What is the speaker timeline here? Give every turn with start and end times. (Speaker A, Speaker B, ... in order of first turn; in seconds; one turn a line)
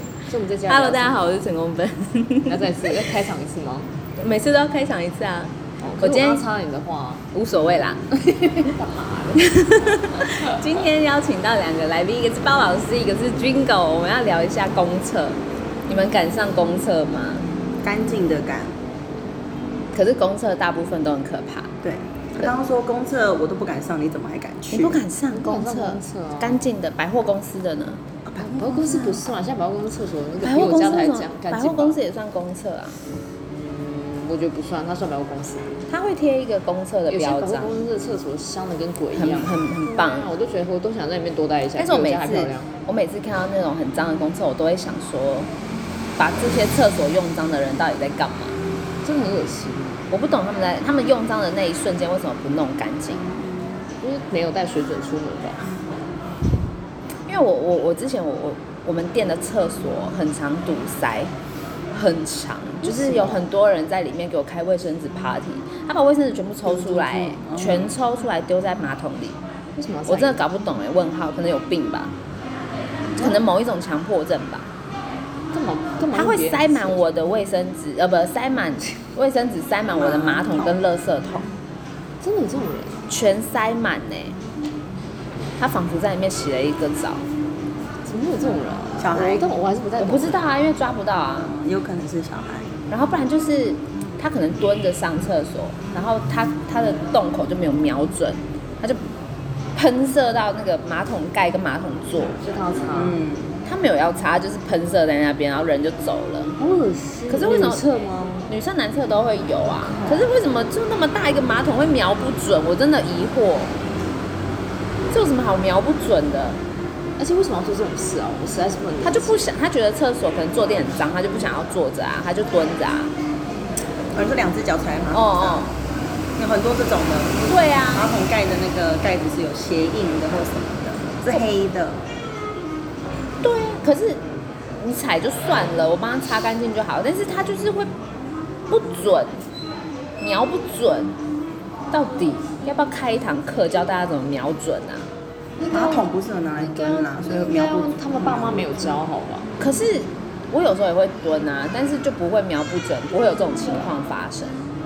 Speaker A: 0.3-1.3
Speaker B: 0.7-2.7
Speaker A: 2.5-3.9
Speaker B: 4.2-6.4
Speaker A: 5.8-7.2
Speaker B: 7.3-8.7
Speaker A: 8.3-9.5
Speaker B: 9.4-17.5
Speaker C: 17.8-18.8
Speaker B: 19.9-21.7
Speaker C: 21.8-25.0
Speaker B: 24.7-28.0
Speaker A: 25.3-26.6
Speaker C: 28.2-29.2
Speaker A: 28.4-32.0
Speaker B: 30.4-33.0
Speaker A: 33.5-35.8
Speaker B: 35.9-37.7
Speaker A: 37.1-42.7
Speaker B: 39.1-40.3
Speaker B: 41.8-45.5
Speaker B: 46.2-48.6
Speaker A: 49.0-50.1
Speaker B: 50.1-53.3
Speaker A: 54.0-55.6
Speaker B: 57.3-61.3
Speaker B: 61.9-69.4
Speaker A: 62.8-63.5
Speaker C: 66.8-67.9
Speaker A: 69.8-70.4
Speaker B: 70.1-72.1
Speaker B: 73.2-74.7
Speaker A: 75.5-77.0
Speaker B: 76.1-81.5
Speaker C: 79.9-80.7
Speaker A: 82.2-83.0
Speaker B: 83.1-84.3
Speaker B: 85.6-87.2
Speaker A: 88.0-90.4
Speaker C: 89.0-89.5
Speaker B: 90.0-91.5
Speaker C: 91.5-92.7
Speaker B: 92.9-99.0
Speaker B: 99.7-102.4
Speaker A: 102.4-103.2
Speaker C: 102.9-103.6
Speaker B: 103.6-106.6
Speaker A: 106.6-108.5
Speaker B: 107.3-107.8
Speaker B: 108.5-113.8
Speaker B: 115.1-116.6
Speaker A: 117.2-119.4
Speaker B: 119.0-123.1
Speaker C: 124.1-125.7
Speaker B: 125.1-125.7
Speaker C: 126.4-132.0
Speaker B: 127.5-128.1
Speaker B: 133.4-134.2
Speaker B: 134.8-137.9
Speaker B: 138.7-139.4
Speaker B: 140.2-141.2
Speaker B: 141.9-145.1
Speaker A: 145.6-149.5
Speaker C: 145.7-148.9
Speaker B: 149.6-154.6